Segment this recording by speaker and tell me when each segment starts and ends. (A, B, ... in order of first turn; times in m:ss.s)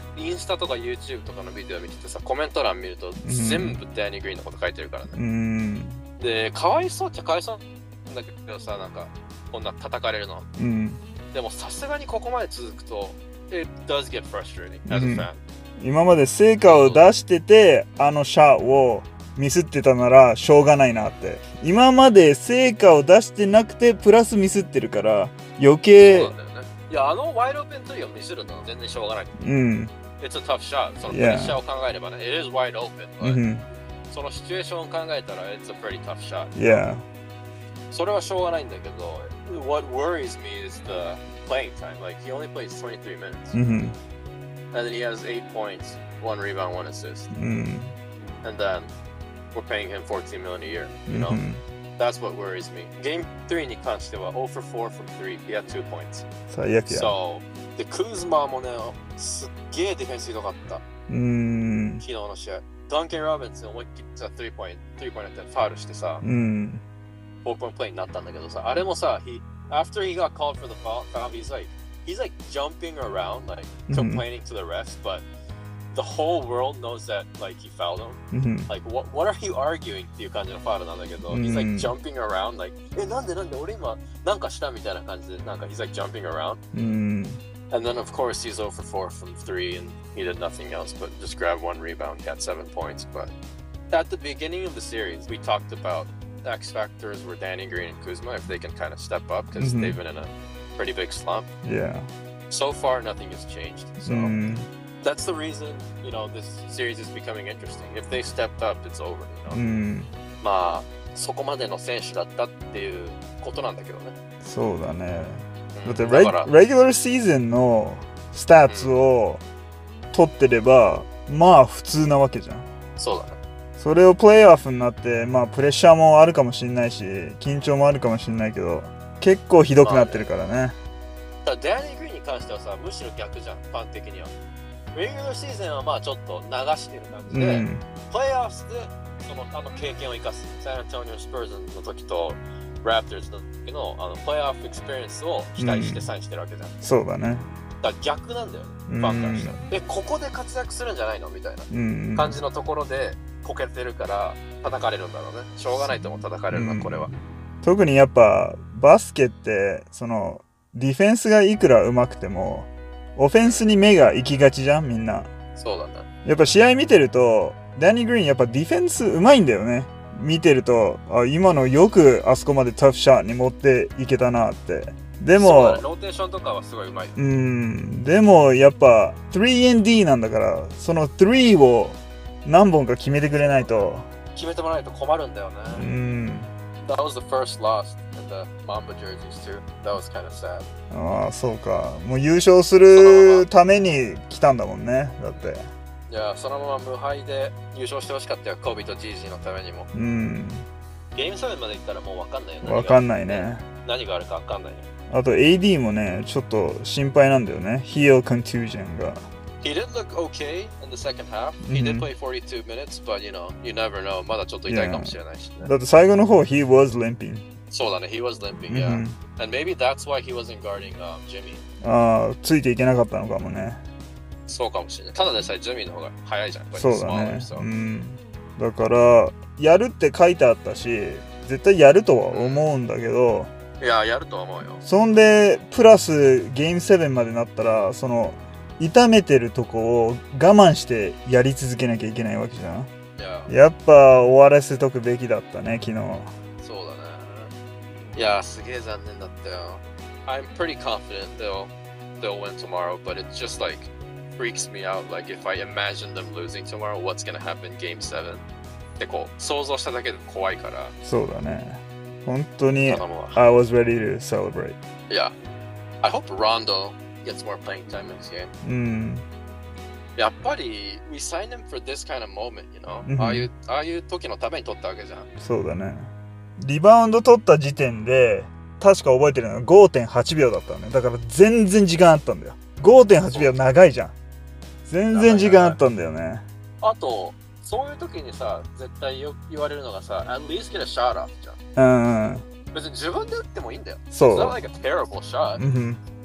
0:00.1-0:05.2 A
0:03.2-0:03.8 B
0:05.1-0:06.0 B
0:06.2-0:10.5 A
0:10.6-0:11.0 B
0:11.3-0:15.4 A
0:14.9-0:26.3 B
0:16.6-0:17.0 A
0:26.0-0:29.4 A
0:29.4-0:29.9 B
0:30.2-0:33.4 A
0:31.1-0:31.6 B
0:33.2-0:33.6 B
0:34.1-0:36.8 A
0:36.5-0:37.0 B
0:37.9-0:43.6 A
0:43.5-0:44.0 B
0:44.7-0:47.3 A
0:47.3-0:47.9 B
0:48.4-0:48.9 A
0:49.5-0:51.4 A
0:51.1-0:51.6 B
0:52.0-0:56.2 A
0:56.5-0:57.1 B
0:56.9-1:00.8 A
1:01.1-1:02.0 B
1:02.0-1:06.2 A
1:06.2-1:06.8 B
1:07.4-1:15.2 A
1:13.9-1:14.2 B
1:15.9-1:26.6 A
1:18.3-1:18.7 B
1:21.3-1:21.9 B
1:26.7-1:27.4 B
1:27.7-1:33.3 A
1:33.9-1:41.5 A
1:39.6-1:40.0 B
1:41.6-1:42.1 B
1:42.5-1:44.4 A
1:44.0-1:44.7 B
1:45.0-1:49.6 A
1:49.5-1:50.1 B
1:50.4-1:54.1 A
1:54.4-1:59.4 B
1:55.7-1:56.5 A
1:58.7-1:58.9 A
2:00.1-2:02.6 B
2:03.0-2:03.4 A
2:03.8-2:10.8 B
2:09.8-2:10.3 A
2:11.4-2:14.3 A
2:14.9-2:26.7 A
2:17.3-2:17.8 B
2:25.6-2:26.1 B
2:26.8-2:27.5 B
2:27.8-2:37.1 A
2:28.9-2:29.6 B
2:31.7-2:32.4 B
2:35.6-2:45.3 B
2:43.4-2:43.7 A
2:45.6-2:46.1 A
2:46.2-2:55.8 B
2:55.3-2:57.2 A
2:57.2-3:04.1 B
3:03.3-3:05.9 A
3:05.7-3:06.5 B
3:06.8-3:10.6 A
3:10.9-3:15.7 B
3:12.9-3:13.5 A
3:16.1-3:19.9 A
3:19.9-3:20.7 B
3:21.1-3:24.9 A
3:22.6-3:23.6 B
3:25.1-3:29.2 B
3:29.6-3:35.7 A
3:31.6-3:32.1 B
3:34.7-3:37.4 B
3:37.7-3:41.6 A
3:38.7-3:39.2 B
3:41.8-3:43.8 B
3:44.5-3:47.7 A
3:46.7-3:53.5 B
3:52.3-3:52.7 A
3:53.8-3:54.8 A
3:54.8-4:02.9 B
4:03.2-4:03.5 A
4:03.5-4:06.3 B
4:06.6-4:07.5 A
4:08.2-4:18.4 A
4:19.0-4:20.9 A
4:21.0-4:24.8 B
4:22.8-4:23.4 A
4:26.0-4:28.5 A
4:28.6-4:29.2 B
4:30.2-4:35.3 A
4:33.1-4:33.5 B
4:35.4-4:44.1 B
4:43.3-4:43.6 A
4:44.9-4:46.4 B
4:45.1-4:45.8 A
4:46.8-4:51.6 A
4:51.8-4:52.4 B
4:52.7-4:55.6 A
4:54.1-4:54.6 B
4:55.6-4:56.0 B